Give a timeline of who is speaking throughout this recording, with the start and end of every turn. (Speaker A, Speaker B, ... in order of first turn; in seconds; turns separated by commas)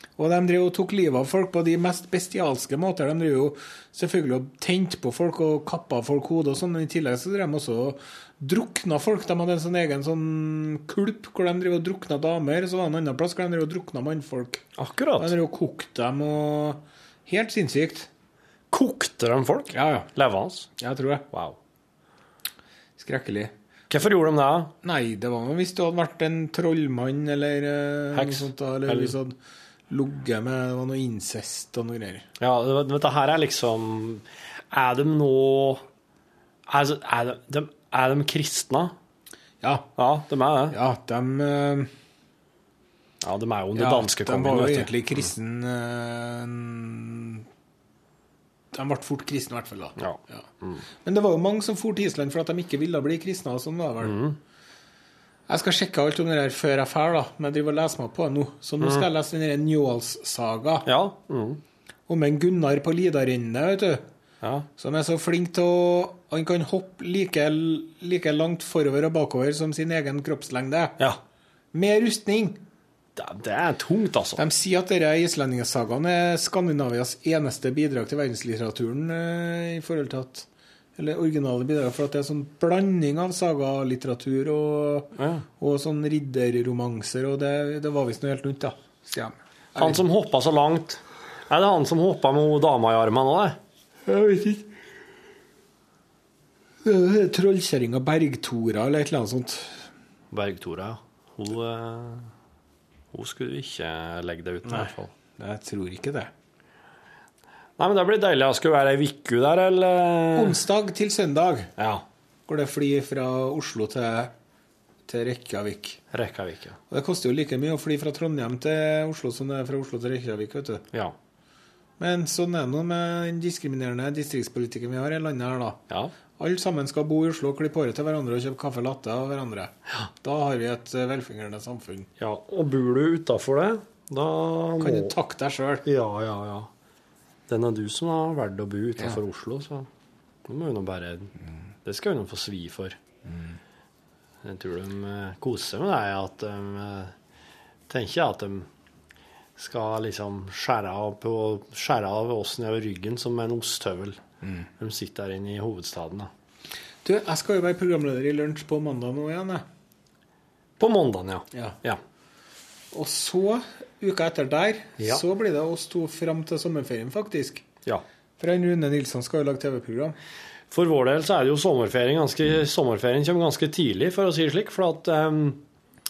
Speaker A: 0.2-14.6, Speaker B: 14.8-15.4, Speaker A: 15.2-18.1, Speaker B: 18.7-20.7, Speaker A: 19.7-20.1, Speaker A: 20.8-21.3, Speaker B: 21.3-21.6, Speaker A: 23.0-23.5, Speaker B: 23.9-24.7, Speaker A: 24.8-29.4, Speaker B: 28.1-29.1, Speaker A: 29.9-32.3, Speaker B: 32.4-35.8, Speaker B: 36.7-39.0, Speaker A: 39.6-39.9, Speaker B: 40.0-40.8, Speaker A: 40.7-41.9, Speaker B: 43.2-44.9, Speaker A: 43.7-47.4, Speaker A: 48.7-50.5, Speaker B: 50.0-50.8, Speaker A: 51.0-54.2, Speaker B: 54.0-54.4, Speaker A: 55.5-60.9, Speaker B: 58.8-59.1, Speaker B: 60.9-61.6, Speaker A: 62.1-64.0, Speaker A: 64.8-71.0, Speaker A: 71.7-72.6, Speaker B: 73.2-74.4, Speaker A: 74.4-90.0, Speaker B: 85.2-85.4, Speaker B: 89.8-93.6, Speaker A: 94.0-94.7, Speaker A: 96.8-99.8, Speaker B: 100.3-102.3, Speaker B: 103.1-105.1, Speaker A: 104.6-106.3, Speaker B: 107.8-110.6, Speaker A: 110.3-111.7, Speaker B: 111.8-112.0, Speaker A: 112.5-114.3, Speaker A: 115.1-116.0, Speaker B: 116.1-116.8, Speaker A: 116.9-120.8, Speaker A: 122.0-125.8, Speaker A: 126.4-132.1, Speaker B: 132.2-135.1, Speaker A: 134.8-135.8, Speaker B: 135.8-136.7, Speaker B: 137.5-139.9, Speaker B: 140.4-141.3, Speaker B: 141.8-143.0, Speaker B: 144.4-147.1, Speaker B: 147.9-148.7, Speaker B: 149.6-154.2, Speaker B: 154.8-156.3, Speaker A: 157.0-159.6, Speaker B: 160.8-162.0, Speaker A: 162.9-167.6, Speaker A: 168.4-170.2, Speaker B: 170.7-175.6